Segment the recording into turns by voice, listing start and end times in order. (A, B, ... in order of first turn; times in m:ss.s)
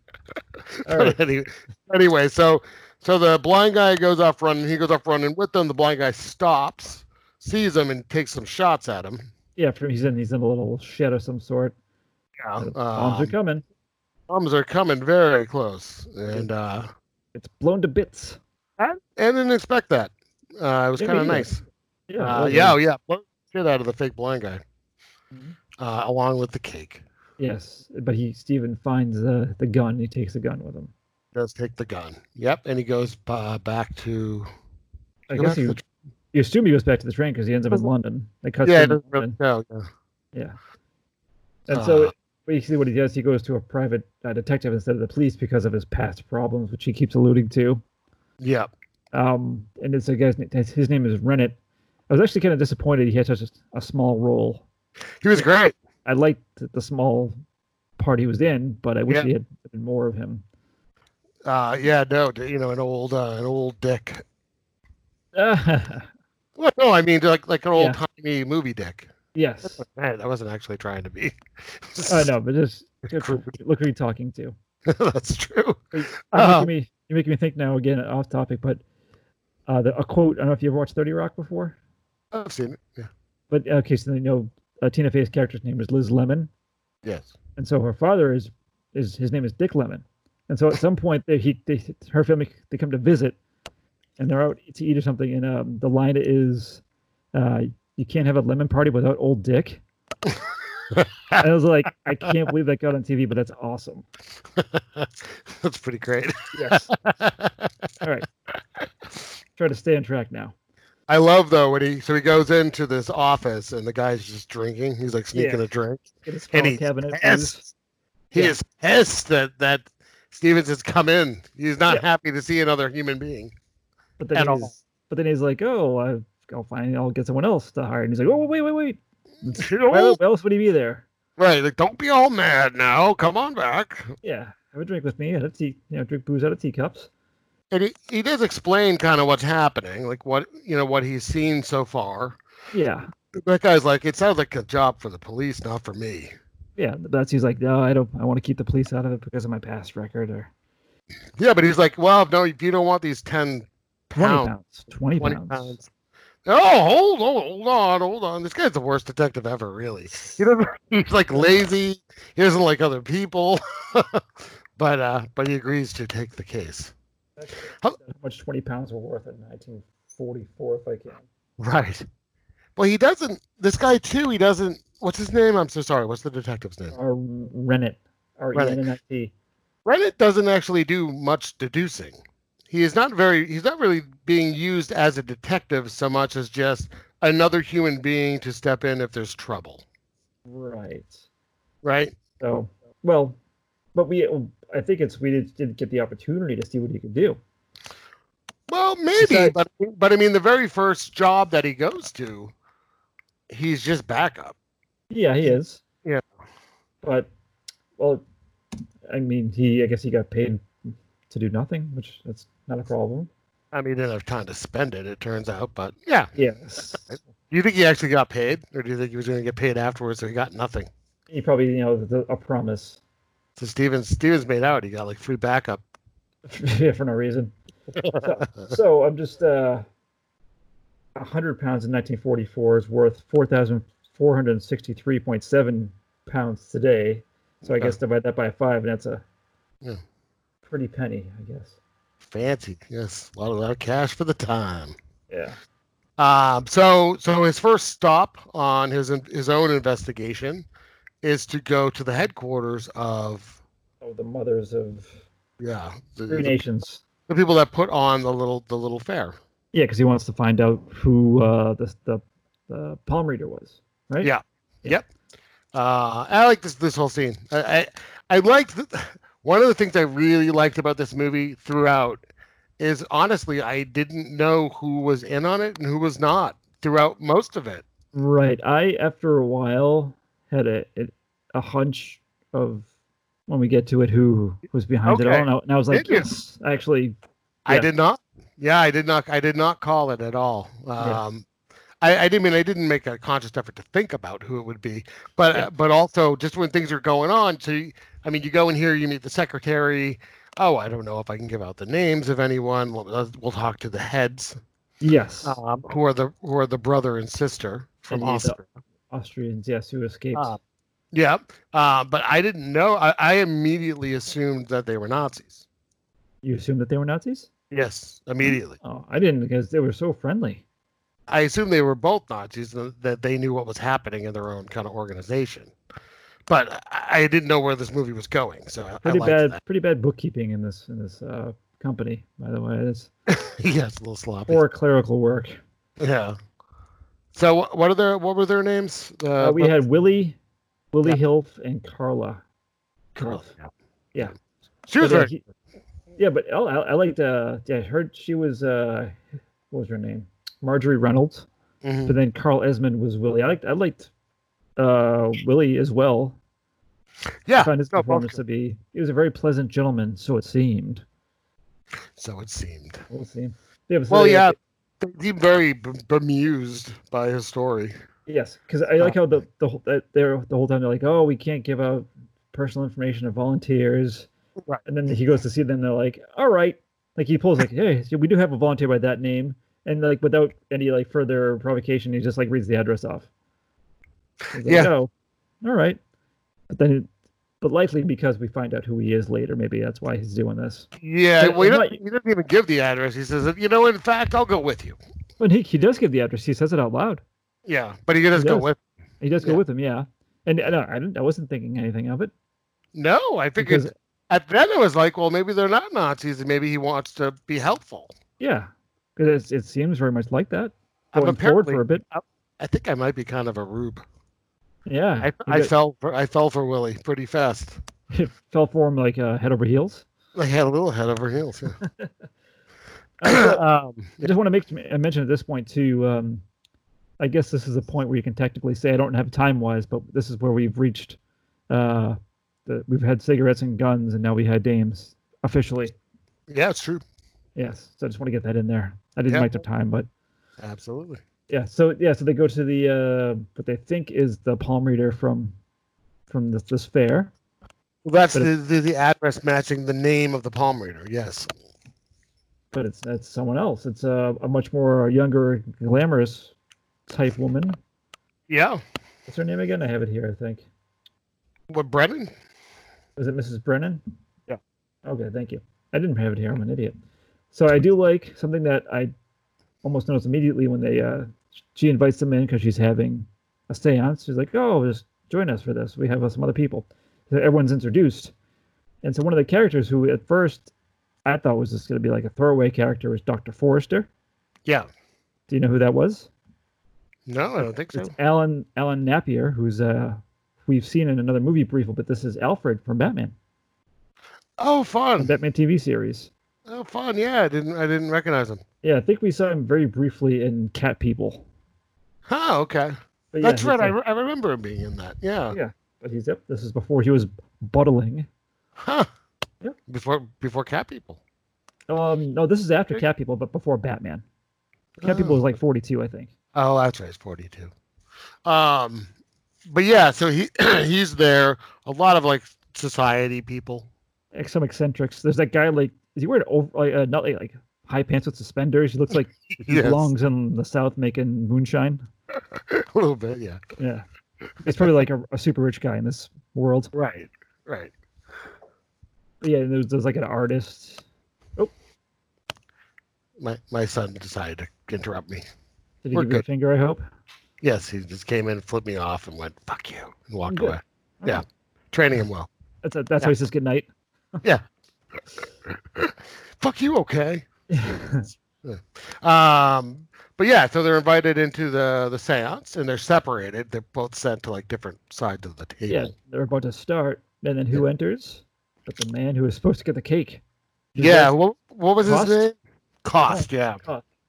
0:00.8-0:09.3 A
0:00.9-0:01.2 B
0:09.6-0:11.8 B
0:12.4-0:13.3 A
0:12.6-0:13.6 B
0:14.3-0:16.9 A
0:17.4-0:18.4 B
0:18.8-0:21.6 A
0:21.0-0:21.5 B
0:22.1-0:22.8 B
0:22.2-0:24.6 A
0:25.8-0:27.0 A
0:27.4-0:30.9 B
0:31.3-0:34.5 A
0:35.3-0:35.8 B
0:35.4-0:35.8 A
0:36.3-0:39.4 B
0:38.6-0:39.9 A
0:41.7-0:47.8 B
0:41.7-0:42.1 A
0:48.4-0:48.7 A
0:49.1-0:51.6 B
0:52.1-0:54.7 B
0:55.2-0:55.8 A
0:56.0-0:57.4 B
0:58.0-1:00.4 B
1:01.4-1:04.2 A
1:05.4-1:06.1 B
1:06.6-1:09.1 A
1:09.3-1:09.8 B
1:09.7-1:12.3 A
1:12.1-1:14.5 B
1:13.1-1:13.6 A
1:14.9-1:16.7 A
1:15.9-1:18.8 B
1:19.7-1:21.8 B
1:22.3-1:23.1 A
1:23.5-1:26.5 B
1:27.0-1:27.3 A
1:27.6-1:33.4 B
1:34.2-1:36.8 B
1:37.3-1:39.8 B
1:40.9-1:41.4 A
1:41.4-1:44.0 B
1:44.6-1:47.7 A
1:46.5-1:46.9 B
1:48.0-1:48.3 B
1:49.6-1:50.5 B
1:51.1-1:57.7 A
1:55.3-1:55.6 B
1:56.2-1:57.6 B
1:58.3-2:03.5 A
2:04.2-2:11.1 B
2:04.4-2:04.8 A
2:09.5-2:10.2 A
2:11.4-2:14.1 A
2:14.2-2:17.1 B
2:17.7-2:22.4 A
2:22.7-2:23.1 B
2:23.4-2:26.3 A
2:26.8-2:30.5 B
2:31.4-2:34.5 A
2:34.2-2:35.8 B
2:35.2-2:35.9 A
2:36.5-2:46.9 A
2:47.4-2:51.2 B
2:51.6-2:52.1 A
2:52.8-2:57.0 A
2:56.9-2:59.3 B
2:58.5-2:58.8 A
2:59.8-3:02.2 A
3:02.7-3:09.8 A
3:10.5-3:11.2 B
3:11.8-3:12.2 A
3:12.4-3:13.4 B
3:14.0-3:17.4 B
3:18.7-3:22.5 A
3:19.2-3:19.6 B
3:23.5-3:24.6 A
3:25.1-3:25.8 B
3:27.0-3:27.3 B
3:28.0-3:28.2 B
3:29.1-3:33.3 B
3:33.7-3:36.3 A
3:36.4-3:37.2 B
3:37.5-3:40.9 A
3:41.3-3:43.0 B
3:43.6-3:45.8 A
3:46.5-3:47.5 B
3:48.0-3:48.7 A
3:48.2-3:49.9 B
3:51.2-3:59.2 B
3:57.6-3:58.0 A
4:00.7-4:01.8 B
4:02.2-4:05.0 A
4:05.3-4:05.6 B
4:06.2-4:10.7 A
4:11.2-4:13.6 A
4:14.0-4:15.1 B
4:15.6-4:16.6 A
4:16.3-4:17.0 B
4:17.3-4:19.4 A
4:19.7-4:24.3 B
4:24.2-4:25.0 A
4:25.7-4:32.2 A
4:32.8-4:37.8 A
4:38.1-4:42.9 B
4:43.5-4:47.2 B
4:45.1-4:46.3 A
4:47.7-4:51.5 A
4:52.0-5:04.6 A
5:05.0-5:05.6 B
5:05.4-5:08.8 A
5:08.1-5:08.6 B
5:09.1-5:10.6 B
5:11.1-5:15.6 A
5:16.4-5:17.5 B
5:17.7-5:18.8 A
5:18.4-5:20.6 B
5:21.3-5:25.7 A
5:26.5-5:29.6 A
5:29.0-5:33.1 B
5:33.3-5:34.6 A
5:34.5-5:35.6 B
5:36.0-5:36.4 A
5:37.3-5:39.8 A
5:39.4-5:40.4 B
5:40.9-5:42.4 B
5:43.2-5:43.5 B
5:43.2-5:43.7 A
5:44.9-5:45.3 A
5:45.0-5:45.4 B
5:46.2-5:51.5 B
5:51.8-5:52.2 A
5:52.1-5:54.1 B
5:54.8-5:56.4 B
5:57.5-5:58.4 A
5:57.6-6:01.0 B
6:02.2-6:03.0 A
6:03.1-6:04.6 B
6:04.1-6:07.9 A
6:08.3-6:14.3 B
6:14.8-6:23.3 B
6:24.5-6:25.1 B
6:24.6-6:24.9 A
6:25.6-6:26.0 B
6:26.7-6:27.1 B
6:27.6-6:32.0 B
6:31.0-6:35.0 A
6:35.4-6:37.2 B
6:37.7-6:38.8 A
6:38.3-6:38.7 B
6:39.2-6:42.3 B
6:43.0-6:48.1 A
6:43.6-6:43.9 B
6:48.4-6:52.0 B
6:51.1-6:54.0 A
6:54.9-6:55.7 B
6:55.2-6:57.8 A
6:58.1-7:00.1 B
7:00.4-7:01.8 A
7:01.8-7:02.1 B
7:03.2-7:03.6 B
7:03.2-7:04.3 A
7:04.2-7:06.4 B
7:07.2-7:11.2 B
7:11.7-7:16.0 B
7:16.5-7:17.0 A
7:17.6-7:20.1 B
7:20.6-7:21.2 A
7:21.5-7:25.6 B
7:26.3-7:27.3 B
7:28.0-7:31.5 A
7:32.7-7:36.5 B
7:37.1-7:37.8 B
7:38.5-7:38.8 A
7:39.3-7:40.7 B
7:41.7-7:42.3 A
7:43.2-7:44.0 B
7:45.0-7:47.0 B
7:47.5-7:49.1 B
7:49.8-7:58.3 B
7:59.0-8:00.7 B
8:01.2-8:04.1 B
8:05.5-8:06.3 B
8:07.3-8:08.1 A
8:07.9-8:13.3 B
8:14.6-8:15.3 A
8:15.2-8:16.3 B
8:16.7-8:18.6 A
8:18.8-8:21.5 B
8:22.3-8:25.6 A
8:23.3-8:24.0 B
8:25.5-8:28.3 B
8:28.8-8:29.1 A
8:29.9-8:31.2 A
8:31.9-8:34.2 B
8:35.0-8:35.4 A
8:35.0-8:36.3 B
8:36.5-8:37.7 A
8:38.4-8:39.1 A
8:39.7-8:43.9 A
8:44.3-8:52.1 B
8:49.5-8:50.1 A
8:52.5-8:53.6 A
8:53.8-8:54.0 B
8:54.6-8:56.9 B
8:56.9-8:57.9 A
8:59.4-9:01.0 B
9:03.4-9:05.4 A
9:06.0-9:07.0 B
9:06.1-9:06.4 A
9:07.6-9:12.5 A
9:10.5-9:11.4 B
9:12.8-9:13.9 B
9:15.7-9:18.0 A
9:17.7-9:18.3 B
9:18.6-9:26.1 A
9:25.9-9:30.4 B
9:30.9-9:31.3 B
9:31.0-9:33.8 A
9:32.0-9:32.4 B
9:33.2-9:34.0 B